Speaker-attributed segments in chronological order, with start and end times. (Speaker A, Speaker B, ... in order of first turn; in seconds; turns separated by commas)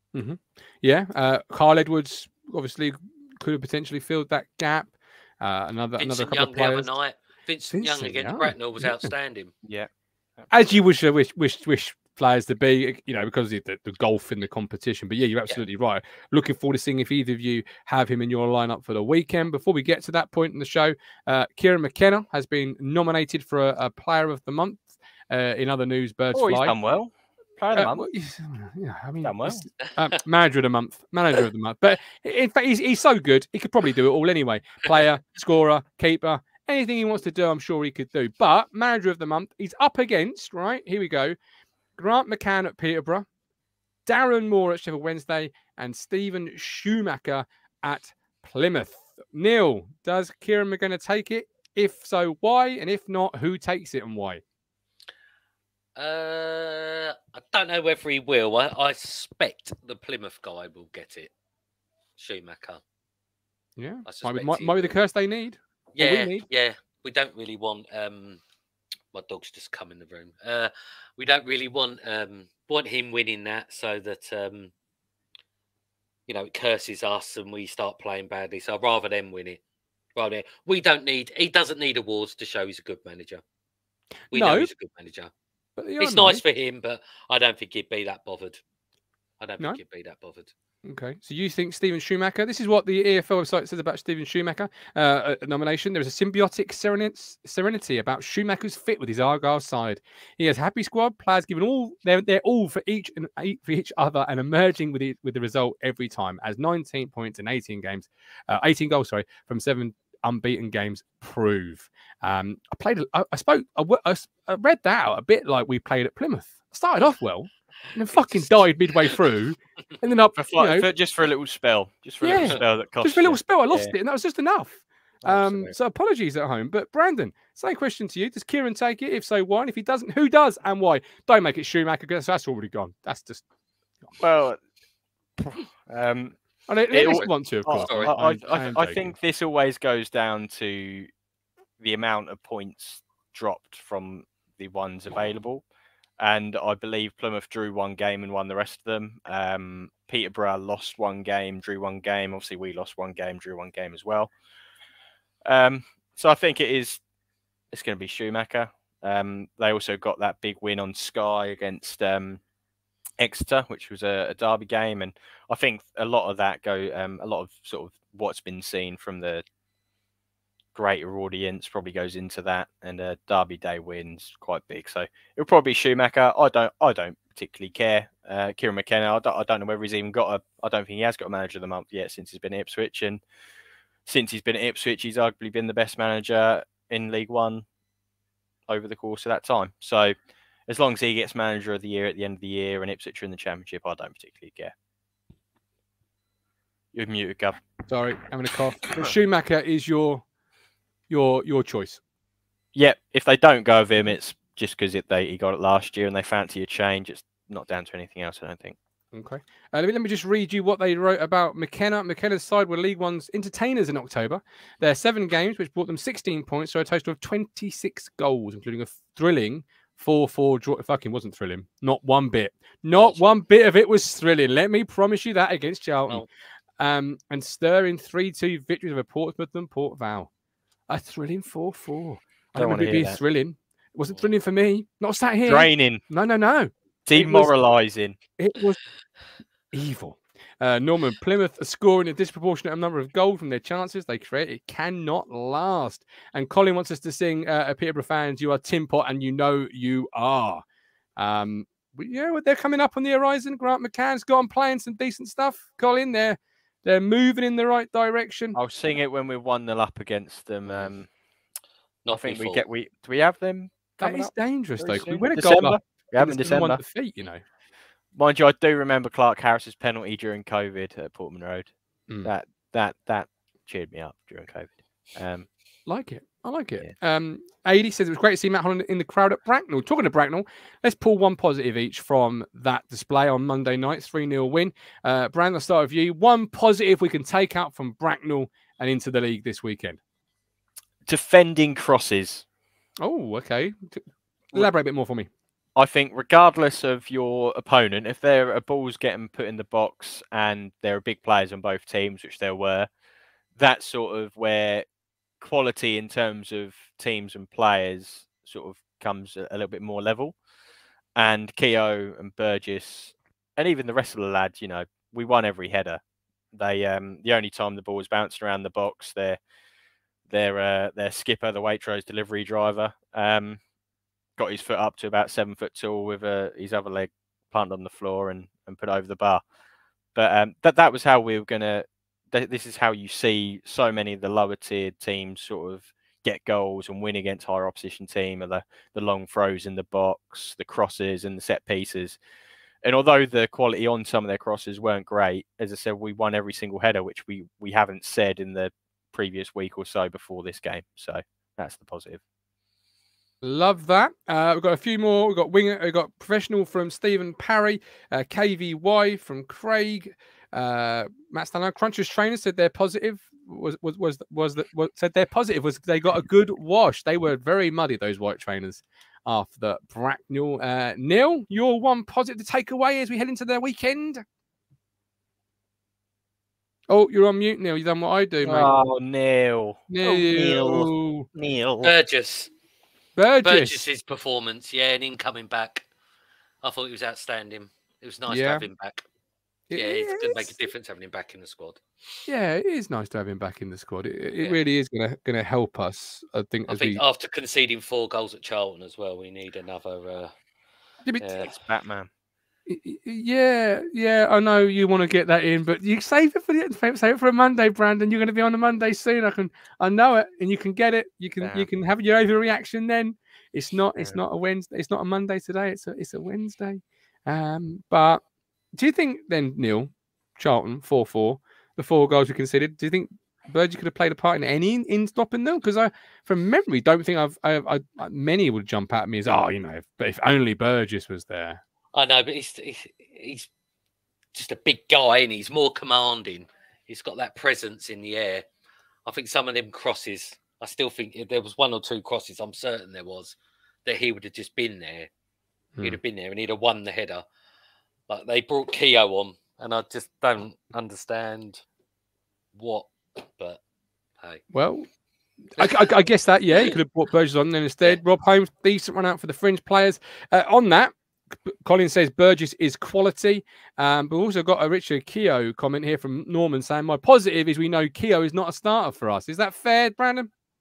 Speaker A: 0.1-6.9, Speaker B: 6.0-9.5, Speaker A: 7.7-9.1, Speaker C: 9.6-10.5, Speaker A: 10.5-26.7, Speaker C: 26.3-28.1, Speaker A: 27.7-41.4, Speaker C: 29.2-29.6, Speaker A: 42.0-43.2, Speaker A: 44.0-54.4, Speaker B: 56.0-61.3, Speaker B: 62.2-62.8, Speaker A: 63.8-66.4, Speaker B: 64.0-65.0, Speaker B: 65.9-68.4, Speaker B: 69.1-74.7, Speaker B: 76.3-79.6, Speaker B: 80.1-83.4, Speaker B: 84.3-85.3, Speaker A: 84.3-84.7, Speaker A: 85.8-86.4, Speaker B: 86.0-88.6, Speaker B: 89.4-90.5, Speaker A: 90.8-120.8, Speaker C: 120.4-123.9, Speaker A: 122.2-133.4, Speaker C: 125.2-125.8, Speaker C: 134.2-134.6, Speaker C: 135.9-136.3, Speaker A: 136.7-139.1, Speaker C: 136.9-141.1, Speaker B: 136.9-137.3, Speaker B: 137.8-138.2, Speaker C: 141.8-145.6, Speaker C: 146.2-154.3, Speaker C: 155.4-157.0, Speaker C: 157.7-162.4, Speaker C: 163.2-169.4, Speaker C: 170.7-183.2, Speaker C: 184.1-187.7, Speaker C: 188.7-190.1, Speaker C: 190.7-194.7, Speaker C: 196.9-197.6, Speaker A: 197.9-200.2, Speaker A: 201.1-202.0, Speaker C: 202.7-208.8, Speaker A: 209.1-226.2, Speaker B: 222.9-223.4, Speaker A: 226.8-230.3, Speaker A: 230.9-237.5, Speaker C: 232.5-233.2, Speaker C: 235.5-236.0, Speaker C: 237.1-238.2, Speaker A: 238.4-238.8, Speaker A: 239.7-250.6, Speaker A: 251.2-258.6, Speaker C: 258.5-261.1, Speaker B: 262.0-262.6, Speaker C: 262.1-266.8, Speaker A: 264.0-267.4, Speaker C: 268.1-271.7, Speaker C: 272.2-275.5, Speaker A: 275.9-290.0, Speaker C: 291.1-292.4, Speaker A: 293.0-294.0, Speaker A: 294.5-295.3, Speaker C: 295.8-302.9, Speaker C: 303.6-304.9, Speaker C: 305.4-310.4, Speaker C: 311.2-316.0, Speaker C: 316.5-319.4, Speaker C: 320.3-323.6, Speaker C: 324.4-329.4, Speaker C: 330.1-342.2, Speaker C: 342.8-352.2, Speaker A: 353.4-374.2, Speaker A: 376.9-378.7, Speaker C: 378.4-381.9, Speaker A: 379.9-381.3, Speaker B: 381.8-382.5, Speaker A: 383.2-383.9, Speaker B: 383.4-385.9, Speaker B: 386.6-389.0, Speaker A: 388.3-388.7, Speaker A: 389.7-390.5, Speaker B: 389.7-391.8, Speaker A: 392.3-397.0, Speaker B: 396.7-400.3, Speaker B: 401.2-401.5, Speaker C: 401.4-402.1, Speaker A: 402.7-418.2, Speaker C: 411.4-411.7, Speaker A: 418.8-431.6, Speaker B: 431.9-433.5, Speaker B: 434.3-438.4, Speaker B: 439.1-445.1, Speaker B: 445.8-447.2, Speaker B: 448.1-451.6, Speaker B: 452.5-453.6, Speaker A: 454.5-454.9, Speaker A: 455.6-460.9, Speaker B: 455.6-455.9, Speaker A: 461.5-470.3